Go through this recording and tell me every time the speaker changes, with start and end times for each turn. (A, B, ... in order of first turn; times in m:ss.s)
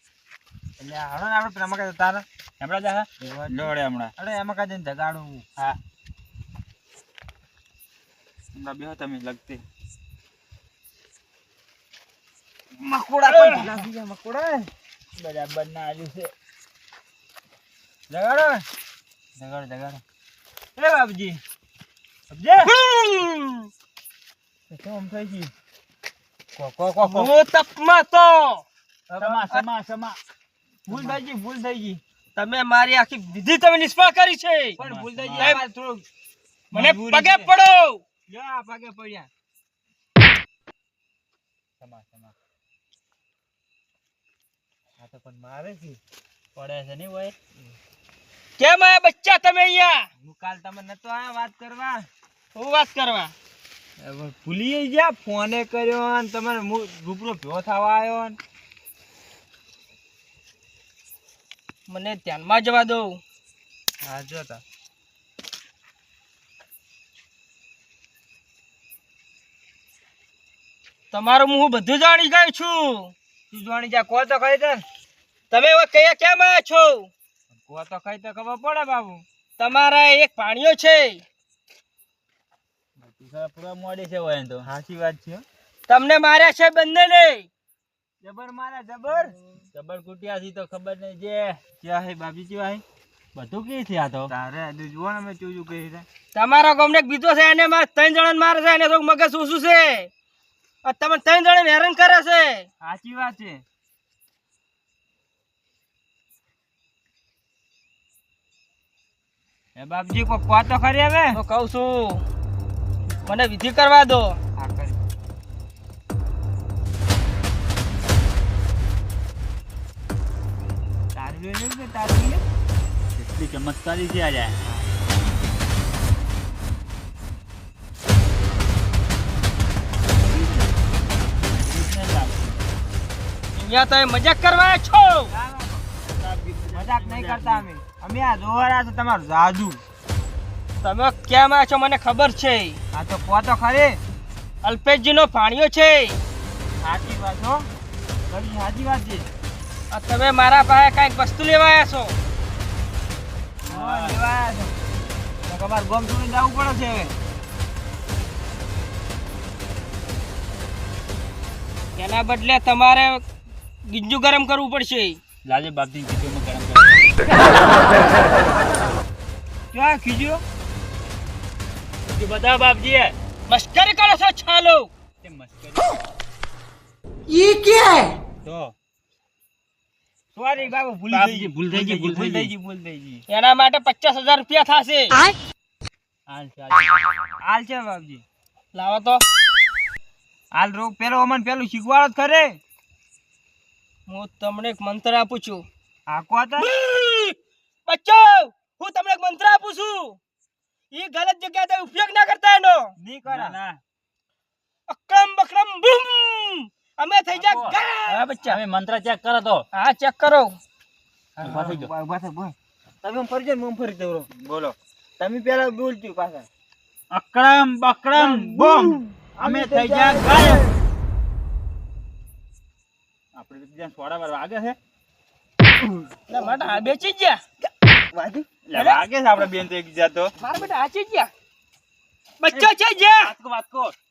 0:00.8-0:02.2 A
0:02.6-0:04.1 B
0:03.2-0:05.4 A
0:08.5-0:09.6 B
0:12.8-0:14.7 A
0:13.3-0:13.8 B
0:15.2-0:16.3 B
0:18.1-0:18.6 A
0:19.4-0:20.0 A
0:20.8-0:21.4 A
0:22.3-0:22.7 A
0:22.7-0:23.7 C
0:24.7-0:25.5 A
0:26.6-0:27.3 A
0:27.0-0:28.6 C
0:29.1-0:29.6 A
0:29.2-0:30.2 B
0:30.9-0:32.0 A
0:32.4-0:34.8 C
0:34.8-0:35.6 B
0:34.8-0:36.0 A
0:36.7-0:37.5 A
0:36.7-0:38.0 C
0:38.3-0:39.3 A
0:41.8-0:42.3 B
0:45.0-0:46.0 A
0:46.6-0:47.3 B
0:48.6-0:50.1 C
0:50.2-0:52.1 A
0:52.6-0:53.3 C
0:54.0-0:58.4 A
1:01.9-1:03.2 C
1:04.0-1:04.6 A
1:11.1-1:13.1 C
1:13.5-1:14.8 A
1:15.5-1:17.1 C
1:17.7-1:19.2 A
1:19.6-1:21.2 C
1:23.0-1:24.7 B
1:24.6-1:25.4 A
1:25.9-1:27.5 C
1:28.2-1:29.4 A
1:29.7-1:31.6 B
1:31.8-1:32.8 A
1:33.4-1:34.3 B
1:34.3-1:36.1 A
1:36.3-1:40.1 C
1:40.8-1:42.7 C
1:42.8-1:43.6 A
1:49.8-1:51.4 A
1:51.3-1:52.2 C
1:53.2-1:54.4 C
1:54.6-1:55.0 A
2:01.2-2:02.4 A
2:03.2-2:04.6 B
2:10.4-2:10.6 A
2:11.4-2:12.6 B
2:13.6-2:15.3 C
2:15.3-2:15.9 A
2:16.1-2:17.7 B
2:16.7-2:19.8 A
2:20.8-2:22.8 C
2:22.9-2:24.0 A
2:24.6-2:26.2 C
2:26.8-2:27.7 A
2:28.3-2:29.3 A
2:29.9-2:32.2 C
2:33.6-2:34.2 B
2:33.7-2:34.7 A
2:35.5-2:37.1 A
2:42.0-2:43.2 C
2:43.9-2:45.2 C
2:45.4-2:47.1 B
2:49.7-2:50.4 A
2:52.1-2:53.2 B
2:53.5-2:54.9 C
2:55.2-2:56.0 B
2:58.4-2:58.7 B
3:00.3-3:03.2 A
3:01.1-3:02.5 B
3:03.3-3:05.3 C
3:06.3-3:07.1 B
3:07.4-3:08.2 A
3:08.7-3:09.2 C
3:10.5-3:12.6 A
3:14.1-3:15.7 C
3:16.1-3:16.7 A
3:16.6-3:20.2 C
3:20.9-3:22.9 C
3:23.0-3:23.6 A
3:23.3-3:23.8 B
3:24.9-3:28.6 C
3:27.3-3:29.6 B
3:29.7-3:30.6 C
3:31.4-3:34.3 A
3:31.4-3:31.9 B
3:34.4-3:34.8 B
3:35.2-3:36.5 A
3:37.1-3:40.6 B
3:38.1-3:40.8 A
3:43.4-3:44.8 B
3:46.3-3:47.4 C
3:46.4-3:46.8 A
3:48.1-3:48.5 A
3:48.7-3:50.3 B
3:48.7-3:49.0 C
3:50.4-3:51.3 C
3:52.4-3:53.3 C
3:53.2-3:54.0 B